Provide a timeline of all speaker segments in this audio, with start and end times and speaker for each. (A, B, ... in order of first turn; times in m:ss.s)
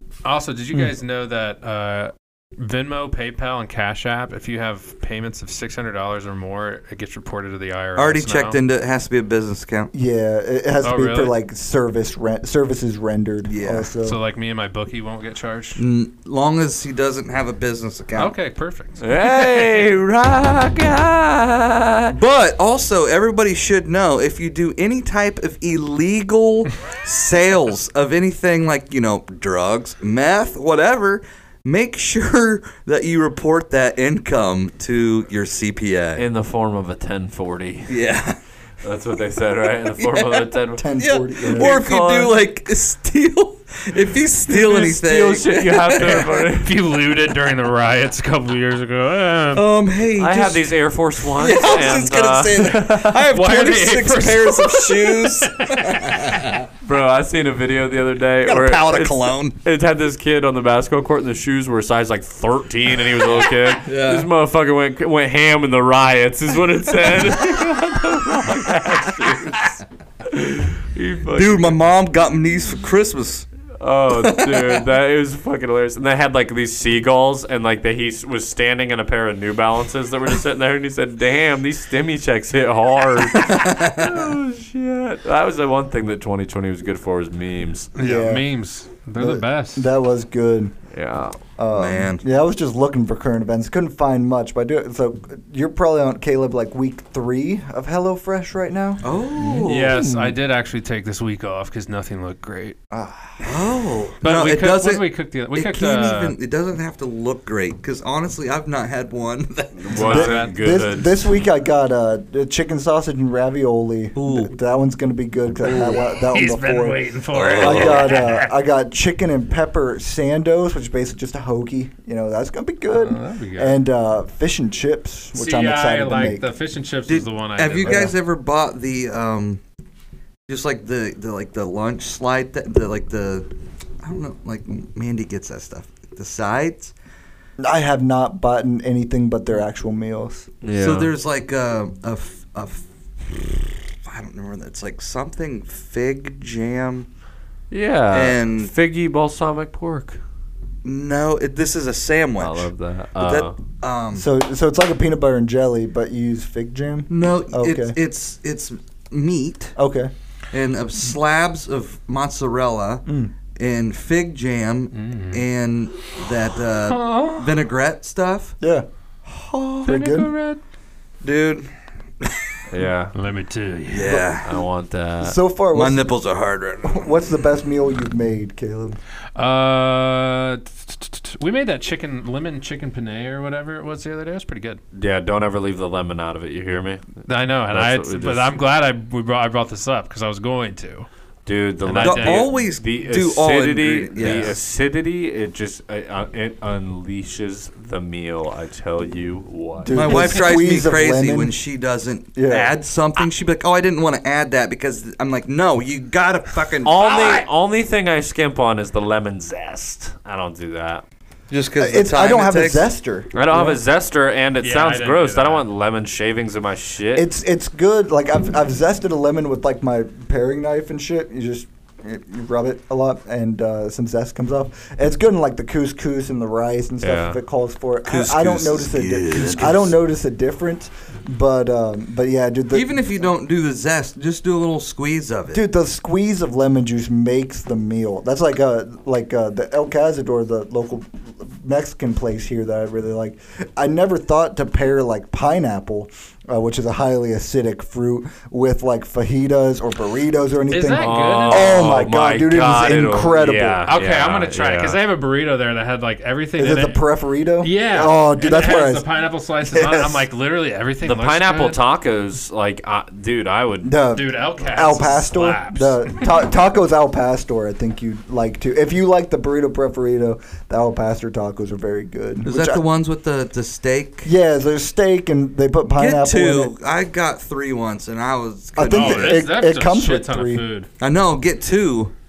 0:00.2-0:08.6 A
0:08.0-0:09.9 B
0:09.9-0:14.2 C
0:10.8-0:11.3 A
0:13.5-0:13.9 B
0:14.0-0:15.8 A
0:15.8-0:18.3 B
0:18.2-0:19.9 A
0:19.0-0:22.2 D
0:22.1-0:36.2 B
0:36.2-0:37.9 D
0:37.9-0:38.4 B
0:38.8-0:40.8 D
0:40.0-0:46.3 B
0:40.8-0:41.8 C
0:41.4-0:42.4 D
0:44.5-0:46.7 D
0:46.0-0:49.7 A
0:49.5-0:50.7 B
0:50.2-0:53.1 D
0:51.3-0:56.6 B
0:53.3-0:56.4 A
0:56.8-1:09.7 D
0:58.4-0:59.6 B
1:03.3-1:04.3 B
1:10.3-1:11.8 D
1:11.3-1:13.4 B
1:13.8-1:27.9 D
1:14.1-1:14.8 B
1:23.3-1:24.3 B
1:28.0-1:29.9 A
1:28.0-1:28.4 C
1:29.2-1:30.7 C
1:30.9-1:31.4 D
1:31.6-1:39.1 C
1:31.7-1:32.2 B
1:39.0-1:40.0 B
1:39.4-1:40.3 D
1:39.5-1:42.8 A
1:42.9-1:43.5 C
1:43.4-1:50.1 B
1:44.2-1:46.4 A
1:49.8-1:51.2 D
1:49.9-1:50.6 A
1:50.0-2:06.5 C
1:54.2-1:54.5 B
1:56.1-1:58.5 A
1:57.3-1:58.1 B
2:02.9-2:03.8 A
2:05.3-2:08.1 A
2:07.1-2:09.6 B
2:07.8-2:08.1 C
2:10.5-2:13.5 B
2:14.0-2:16.9 B
2:17.6-2:20.5 C
2:20.6-2:21.1 D
2:20.8-2:27.1 B
2:27.7-2:30.2 D
2:28.1-2:28.7 B
2:30.8-2:34.2 B
2:32.4-2:33.6 D
2:34.1-2:38.0 C
2:37.1-2:39.7 B
2:39.8-2:40.1 C
2:40.5-2:43.0 B
2:43.0-2:43.3 C
2:43.6-2:48.5 B
2:44.9-2:45.5 A
2:46.9-2:47.6 A
2:48.6-2:50.3 C
2:49.8-2:50.6 A
2:51.2-2:51.7 B
2:52.2-2:52.5 B
2:52.7-2:53.1 D
2:53.1-2:54.3 A
2:53.9-2:54.5 B
2:54.4-2:55.4 D
2:55.2-2:56.1 C
2:55.7-2:57.1 B
2:56.8-2:59.0 C
2:59.4-3:04.8 A
3:04.9-3:07.1 D
3:07.2-3:11.1 A
3:07.7-3:08.6 D
3:11.4-3:19.9 D
3:11.8-3:12.5 A
3:12.0-3:14.6 B
3:19.8-3:21.6 C
3:19.9-3:27.2 B
3:22.3-3:22.7 C
3:26.8-3:31.0 D
3:31.5-3:32.9 B
3:31.8-3:33.8 C
3:33.3-3:37.3 D
3:34.6-3:35.6 A
3:37.1-3:53.0 C
3:47.0-3:47.4 D
3:48.0-3:49.9 B
3:52.7-3:55.6 B
3:55.5-4:13.8 C
4:10.7-4:11.9 A
4:11.0-4:15.0 D
4:13.8-4:17.0 A
4:16.6-4:20.3 C
4:17.6-4:21.8 A
4:21.0-4:24.0 D
4:23.8-4:32.8 C
4:24.1-4:26.3 A
4:32.4-4:34.3 B
4:34.2-4:36.7 C
4:36.0-4:39.5 B
4:38.8-4:40.6 C
4:38.9-4:40.9 A
4:41.0-4:42.1 B